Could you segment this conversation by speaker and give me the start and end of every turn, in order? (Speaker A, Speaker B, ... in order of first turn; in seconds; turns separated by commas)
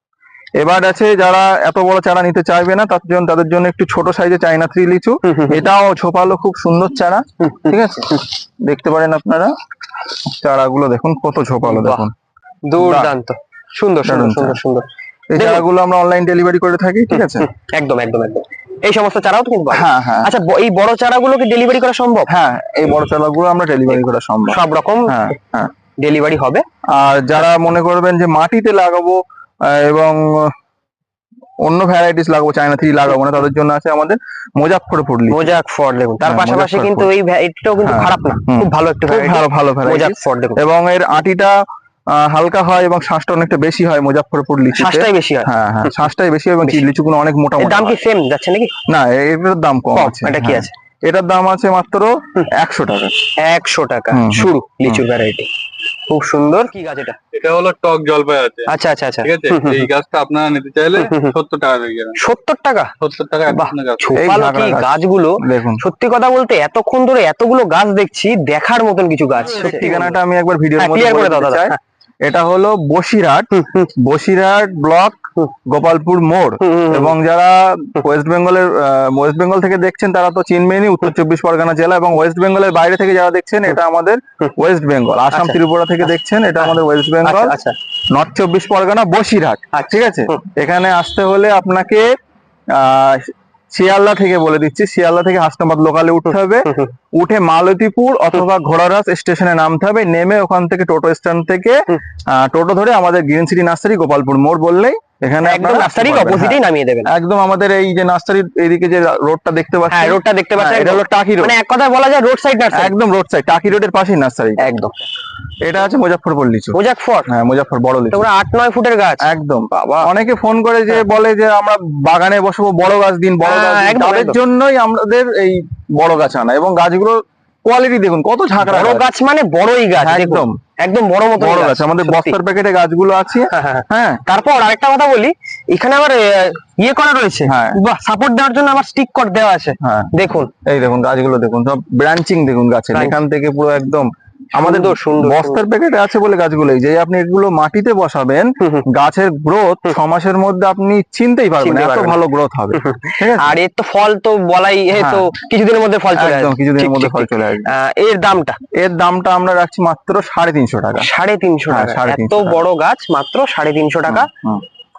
Speaker A: 0.6-9.5, Speaker B: 5.3-5.6, Speaker B: 7.5-7.7, Speaker A: 10.2-12.1, Speaker B: 11.6-12.0, Speaker B: 12.7-15.6, Speaker A: 12.8-13.1, Speaker A: 14.0-14.6, Speaker A: 15.3-17.5, Speaker B: 17.1-22.3, Speaker A: 19.7-20.3, Speaker A: 22.3-25.7, Speaker B: 24.5-25.3, Speaker B: 26.0-26.6, Speaker A: 26.9-30.5, Speaker A: 31.6-35.5, Speaker B: 35.3-40.6, Speaker A: 36.2-37.1, Speaker A: 37.8-41.5, Speaker A: 42.1-48.0, Speaker B: 44.7-46.0, Speaker B: 47.6-48.7, Speaker A: 48.9-53.1, Speaker B: 49.9-50.7, Speaker B: 53.4-55.5, Speaker A: 54.1-55.0, Speaker B: 56.1-57.2, Speaker C: 57.3-62.2, Speaker B: 58.7-59.9, Speaker B: 60.9-61.3, Speaker B: 62.2-62.9, Speaker C: 63.0-64.2, Speaker B: 63.5-70.2, Speaker A: 64.2-65.8, Speaker A: 69.4-87.5, Speaker B: 70.8-71.8, Speaker B: 73.5-73.9, Speaker B: 76.6-77.1, Speaker B: 85.3-85.6, Speaker B: 86.6-87.7, Speaker A: 88.1-92.1, Speaker B: 89.7-90.4, Speaker A: 92.7-111.5, Speaker B: 96.7-96.9, Speaker B: 105.4-107.1, Speaker B: 109.9-112.9, Speaker A: 112.7-114.7, Speaker B: 114.6-115.1, Speaker A: 115.6-116.8, Speaker B: 116.7-117.3, Speaker A: 117.3-118.2, Speaker B: 118.1-120.1, Speaker A: 119.3-129.1, Speaker B: 123.4-124.4, Speaker B: 128.6-132.4, Speaker A: 130.0-130.6, Speaker A: 131.4-134.2, Speaker B: 133.5-140.5, Speaker A: 137.4-137.8, Speaker A: 139.8-140.1, Speaker A: 140.6-153.5, Speaker B: 144.6-145.6, Speaker B: 151.6-152.2, Speaker B: 152.7-158.6, Speaker A: 154.9-155.3, Speaker A: 156.1-157.7, Speaker A: 158.8-161.1, Speaker B: 161.0-164.3, Speaker A: 161.7-162.6, Speaker A: 164.1-164.6